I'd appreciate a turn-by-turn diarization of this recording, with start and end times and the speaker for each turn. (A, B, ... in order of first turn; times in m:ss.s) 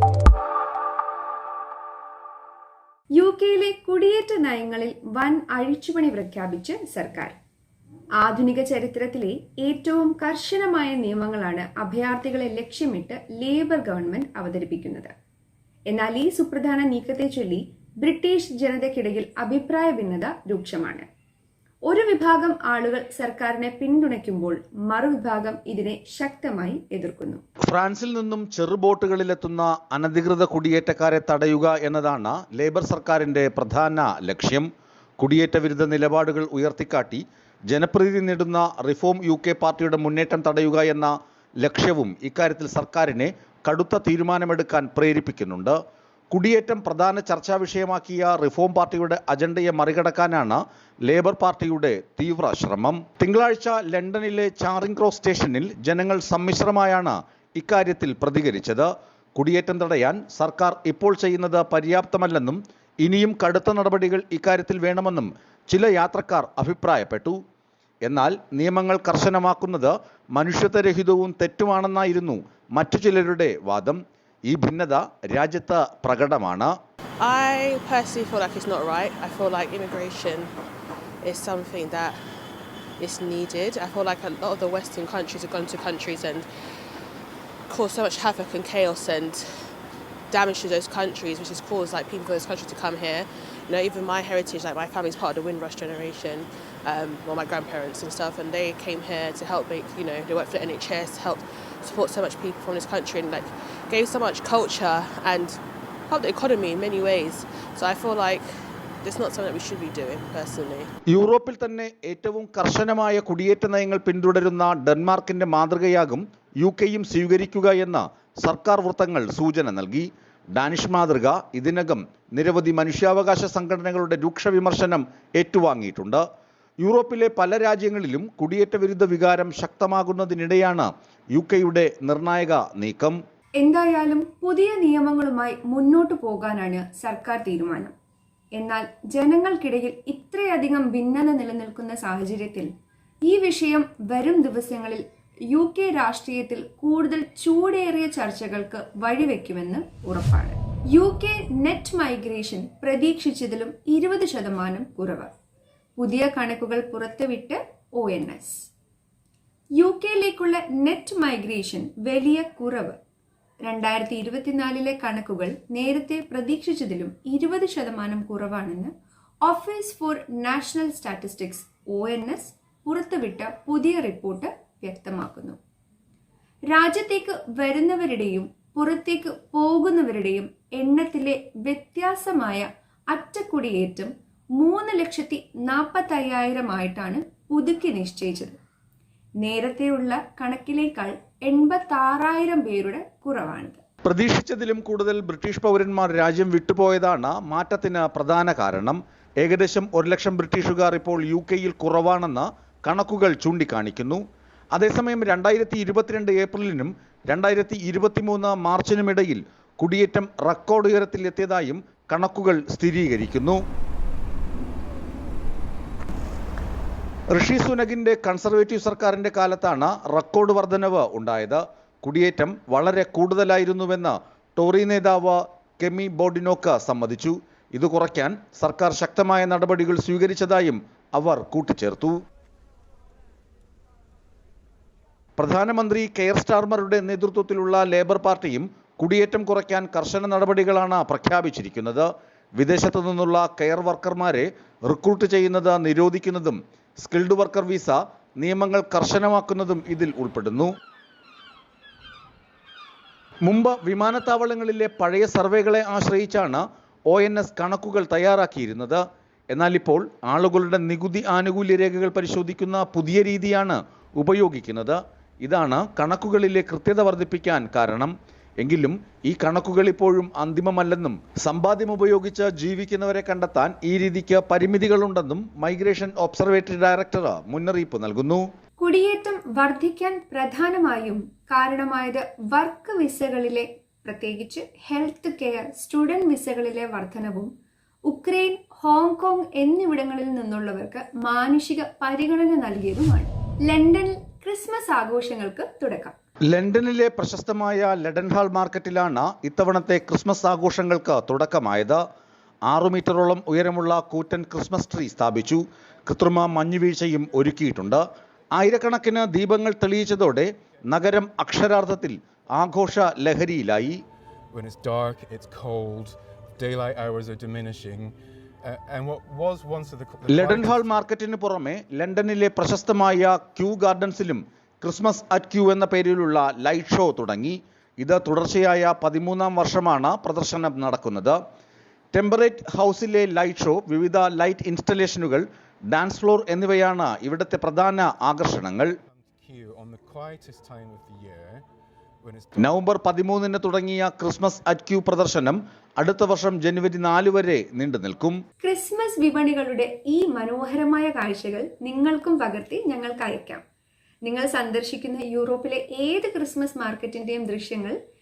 0:03.2-0:07.3 A
0:08.2-0:15.1 A
0:15.9-0:21.0 A
0:21.8-0:27.4 A
0:27.7-0:34.7 B
0:35.2-0:45.8 B
0:46.3-1:07.4 B
1:08.0-1:16.7 B
1:17.2-1:20.5 C
1:21.2-1:22.2 C
1:23.0-1:26.5 C
1:27.7-1:29.7 C
1:30.3-1:48.5 C
1:49.0-1:50.9 C
1:51.1-2:06.2 B
2:06.8-2:13.2 B
2:13.6-2:17.9 A
2:18.6-2:22.7 A
2:23.2-2:35.3 A
2:36.0-2:38.7 A
2:39.8-2:43.0 A
2:43.6-2:48.9 A
2:49.4-2:55.6 A
2:56.7-3:08.6 A
3:09.4-3:13.8 A
3:14.0-3:24.2 B
3:24.7-3:33.6 B
3:37.3-3:52.2 B
3:55.4-4:10.7 B
4:13.4-4:38.4 B
4:38.8-4:47.5 A
4:48.0-4:56.2 A
4:56.5-5:02.0 B
5:02.7-5:08.0 B
5:08.5-5:14.0 B
5:14.5-5:21.0 D
5:20.3-5:31.4 B
5:32.1-5:38.9 B
5:39.1-5:41.6 D
5:42.2-5:42.7 D
5:42.6-5:48.4 B
5:48.6-5:53.6 A
5:54.2-5:58.0 A